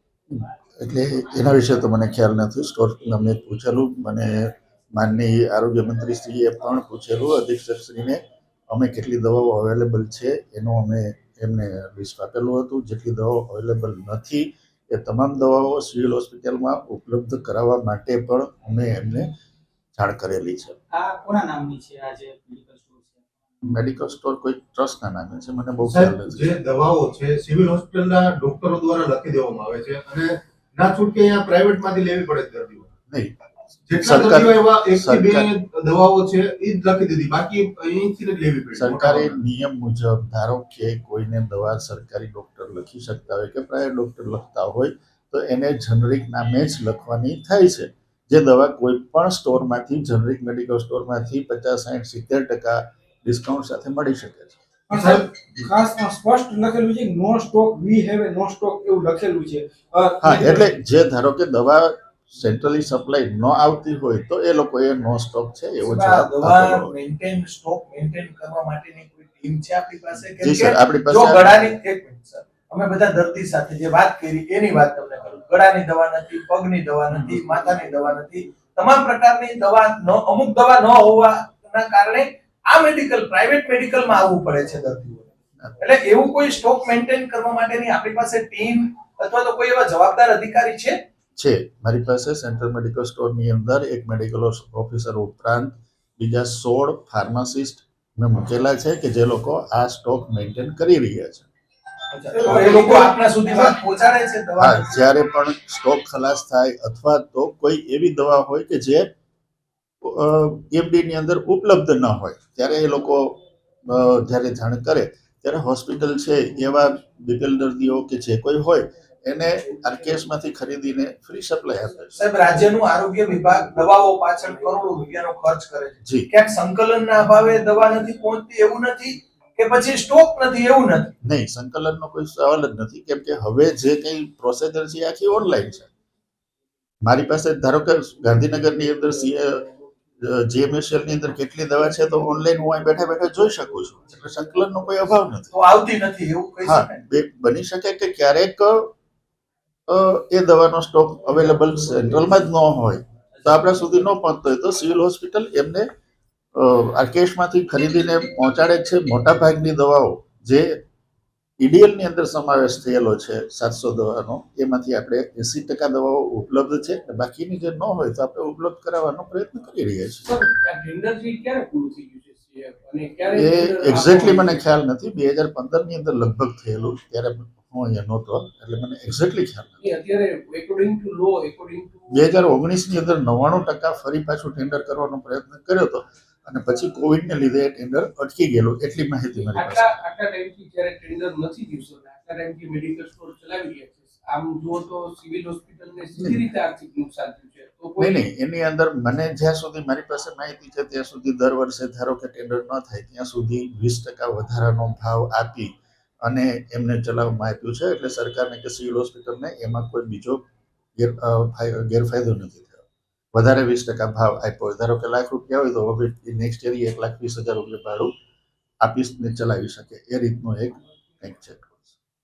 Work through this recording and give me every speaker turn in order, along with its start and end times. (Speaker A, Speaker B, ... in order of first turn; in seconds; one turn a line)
Speaker A: 0.3-19.3
Speaker A: 19.9-20.8
Speaker B: 20.9-23.3
Speaker A: 23.6-26.6
Speaker C: 25.9-32.9
Speaker A: 33.1-33.4
Speaker C: 33.9-39.4
Speaker A: 33.9-35.5
Speaker A: 38.8-54.6
Speaker D: 54.9-60.7
Speaker A: 60.2-66.9
Speaker E: 65.8-91.0
Speaker A: 70.4-71.7
Speaker A: 91.4-101.5
Speaker E: 102.1-104.9
Speaker D: 102.3-103.8
Speaker A: 104.6-109.1
Speaker A: 110.0-122.2
Speaker E: 122.2-131.1
Speaker A: 131.2-135.9
Speaker A: 137.0-139.7
Speaker A: 140.2-145.5
Speaker E: 145.5-147.0
Speaker A: 146.6-148.9
Speaker A: 149.9-155.9
Speaker A: 156.6-160.8
Speaker A: 161.6-170.3
Speaker F: 170.2-174.6
Speaker A: 173.3-179.8
Speaker F: 179.8-182.3
Speaker A: 182.1-190.0
Speaker F: 189.5-198.2
Speaker A: 196.2-196.4
Speaker A: 198.0-210.4
Speaker A: 211.0-212.8
Speaker A: 213.3-218.1
Speaker A: 218.8-222.0